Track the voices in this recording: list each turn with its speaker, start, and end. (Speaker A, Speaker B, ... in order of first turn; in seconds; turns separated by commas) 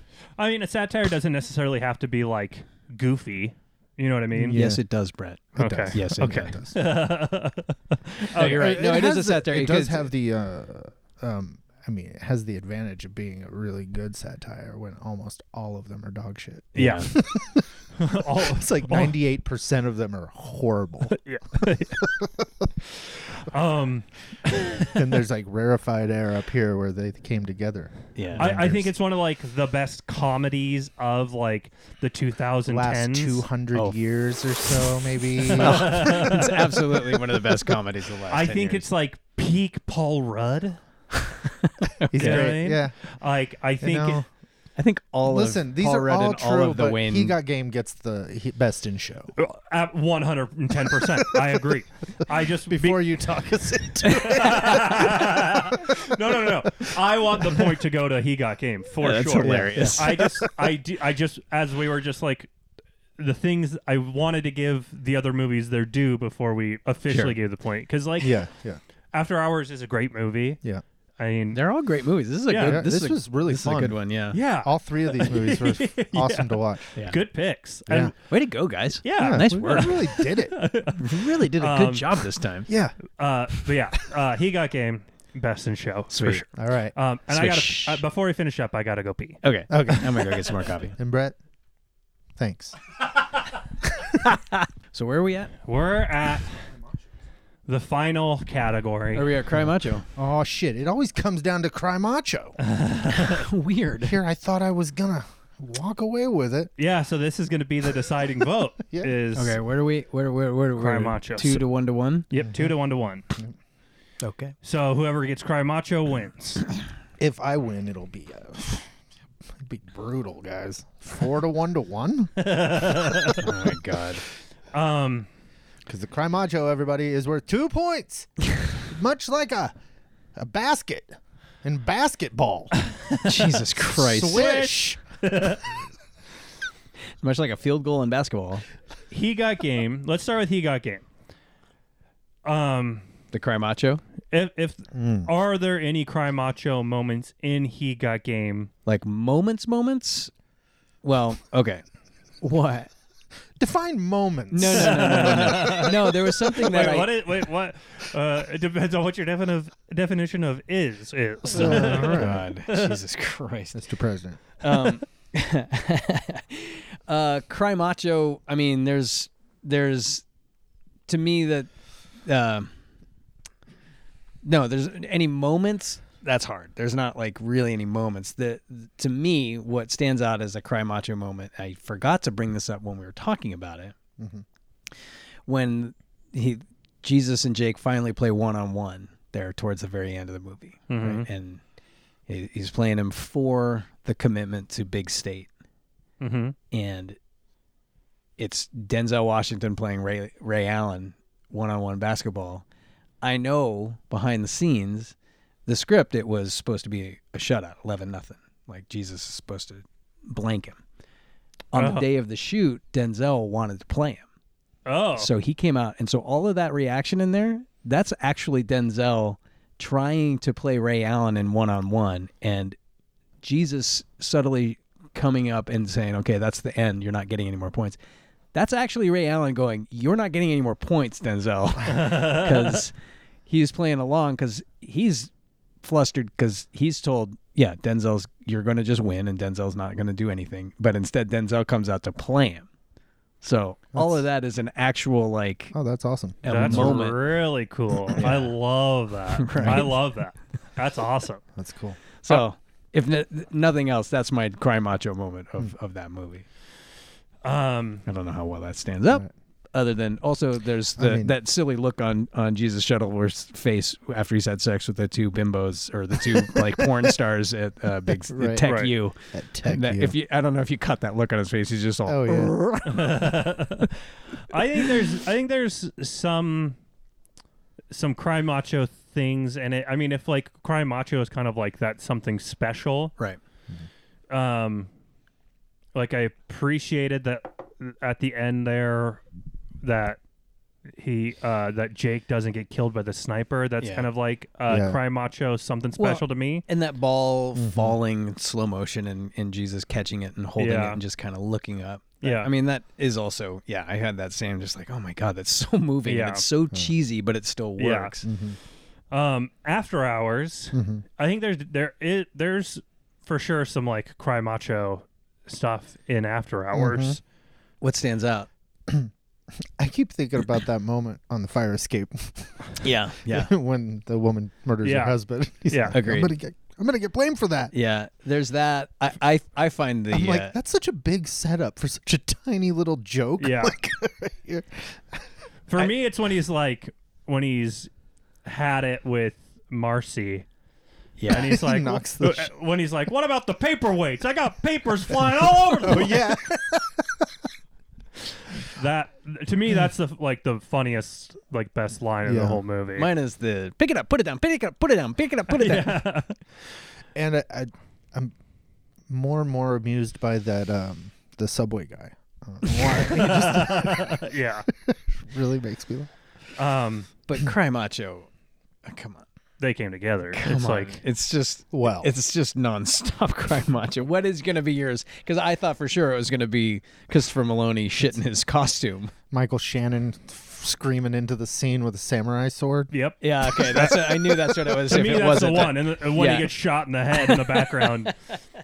Speaker A: 0.4-4.6, Speaker B: 4.3-4.8, Speaker C: 4.5-6.5, Speaker B: 5.5-6.8, Speaker A: 5.6-8.8, Speaker C: 8.3-10.1, Speaker B: 8.4-22.7, Speaker C: 16.7-17.1, Speaker A: 16.8-17.3, Speaker A: 18.0-19.2, Speaker A: 21.1-22.0, Speaker A: 22.9-25.1, Speaker B: 24.9-28.9, Speaker C: 28.1-28.5, Speaker A: 28.4-33.4, Speaker B: 32.6-36.3, Speaker A: 35.4-37.0, Speaker C: 35.5-38.9, Speaker A: 38.3-40.8, Speaker C: 41.6-42.5, Speaker B: 42.1-43.0, Speaker A: 42.1-44.2, Speaker B: 43.8-44.2, Speaker C: 44.8-47.3, Speaker B: 45.2-49.3, Speaker A: 49.4-53.2, Speaker B: 52.7-55.9, Speaker A: 54.0-62.5, Speaker C: 54.1-54.7, Speaker C: 59.0-60.3, Speaker B: 59.4-60.3, Speaker A: 63.2-68.4, Speaker C: 67.1-67.3, Speaker B: 68.2-68.8, Speaker A: 69.1-70.6, Speaker A: 71.2-71.6, Speaker C: 71.5-74.4, Speaker A: 72.5-72.8, Speaker B: 72.6-74.0, Speaker A: 74.3-78.1, Speaker B: 74.6-76.8, Speaker B: 77.9-78.1, Speaker C: 78.2-80.0, Speaker A: 79.0-82.3, Speaker B: 79.2-80.6, Speaker C: 81.0-82.7, Speaker B: 82.7-83.0, Speaker A: 83.2-90.4, Speaker C: 86.1-86.4, Speaker B: 86.6-86.9, Speaker C: 87.3-88.0, Speaker C: 89.4-90.9, Speaker B: 89.7-90.3, Speaker B: 91.0-91.3, Speaker B: 92.4-92.8, Speaker C: 94.2-95.5, Speaker A: 95.7-96.6, Speaker A: 97.7-99.3, Speaker C: 99.1-100.0, Speaker B: 100.2-102.6, Speaker A: 102.6-103.5, Speaker C: 103.2-104.2, Speaker B: 104.0-106.7, Speaker A: 106.8-109.6, Speaker B: 108.9-109.1, Speaker C: 109.3-112.3, Speaker A: 110.8-111.6, Speaker A: 112.3-113.2, Speaker B: 112.4-112.7, Speaker C: 114.2-114.5, Speaker A: 114.6-116.6, Speaker B: 117.2-118.9, Speaker B: 119.5-123.4, Speaker A: 122.4-123.5, Speaker C: 123.4-124.2, Speaker A: 124.7-125.3, Speaker B: 125.8-129.7, Speaker B: 130.3-132.7, Speaker A: 133.1-135.7, Speaker C: 133.2-134.7, Speaker B: 134.1-135.0, Speaker C: 137.2-138.6, Speaker A: 139.1-141.0, Speaker A: 142.4-143.0, Speaker C: 143.3-144.0, Speaker A: 144.3-148.7, Speaker B: 144.9-145.3, Speaker C: 148.8-150.3, Speaker C: 151.0-151.8, Speaker C: 152.4-152.9, Speaker B: 153.6-155.9, Speaker C: 154.5-157.2, Speaker A: 154.7-163.0, Speaker C: 161.5-163.8, Speaker B: 161.5-162.4, Speaker B: 163.7-164.4, Speaker C: 164.6-170.2, Speaker C: 171.1-171.7, Speaker C: 172.2-172.7, Speaker C: 174.4-183.9, Speaker B: 184.2-184.4, Speaker C: 185.4-191.6, Speaker A: 190.9-191.3, Speaker C: 192.3-195.5, Speaker A: 196.2-196.6, Speaker C: 196.7-197.2, Speaker C: 198.4-202.6, Speaker C: 203.2-205.1, Speaker C: 205.7-210.8, Speaker C: 211.7-214.2, Speaker A: 211.7-212.1, Speaker A: 214.8-215.3, Speaker C: 215.2-222.8, Speaker C: 223.4-228.0, Speaker C: 228.5-232.9, Speaker A: 231.8-232.8, Speaker C: 233.5-235.3, Speaker C: 235.8-242.7, Speaker C: 243.4-245.7, Speaker B: 243.9-244.2, Speaker B: 245.7-247.0, Speaker C: 246.4-247.2, Speaker A: 246.4-251.4, Speaker B: 248.2-248.5, Speaker C: 249.3-249.9, Speaker B: 249.6-249.9, Speaker B: 251.6-252.0, Speaker C: 252.2-256.4, Speaker A: 257.4-258.0, Speaker C: 258.1-273.3, Speaker B: 261.0-261.3, Speaker B: 266.3-267.0, Speaker B: 268.3-268.7, Speaker A: 268.6-268.9, Speaker B: 269.3-270.1, Speaker B: 272.1-272.5, Speaker A: 272.9-273.9, Speaker A: 274.4-276.8, Speaker A: 277.9-283.1, Speaker A: 284.3-284.9, Speaker A: 285.9-289.2, Speaker A: 289.8-290.2, Speaker A: 290.9-296.6, Speaker C: 293.8-294.1, Speaker B: 294.7-295.0, Speaker C: 296.0-308.2, Speaker B: 297.6-298.0, Speaker A: 300.6-301.0, Speaker A: 302.2-302.5, Speaker A: 306.1-306.4, Speaker A: 307.8-308.2, Speaker B: 308.2-308.6, Speaker A: 309.1-317.2, Speaker B: 310.7-311.0, Speaker B: 316.7-317.2, Speaker C: 317.8-318.5, Speaker B: 319.8-327.7, Speaker C: 322.8-323.5, Speaker A: 324.8-325.1, Speaker A: 325.7-325.9, Speaker C: 325.9-326.3, Speaker C: 327.7-330.5, Speaker B: 330.1-335.9, Speaker A: 333.4-333.8, Speaker A: 335.7-337.9, Speaker A: 338.4-340.4, Speaker C: 341.2-341.6, Speaker A: 341.3-346.4, Speaker B: 341.3-342.5, Speaker B: 345.8-347.3, Speaker A: 348.6-353.1, Speaker B: 352.2-352.6, Speaker C: 352.9-356.0, Speaker A: 355.5-356.4, Speaker B: 357.1-358.3, Speaker B: 359.1-366.1, Speaker A: 362.8-364.7, Speaker A: 366.6-367.1, Speaker C: 367.2-368.3, Speaker C: 368.8-369.2, Speaker A: 369.6-371.0, Speaker C: 370.3-379.1, Speaker B: 371.7-372.1, Speaker B: 379.3-382.9, Speaker A: 382.9-388.1, Speaker C: 383.2-386.5, Speaker C: 387.1-388.1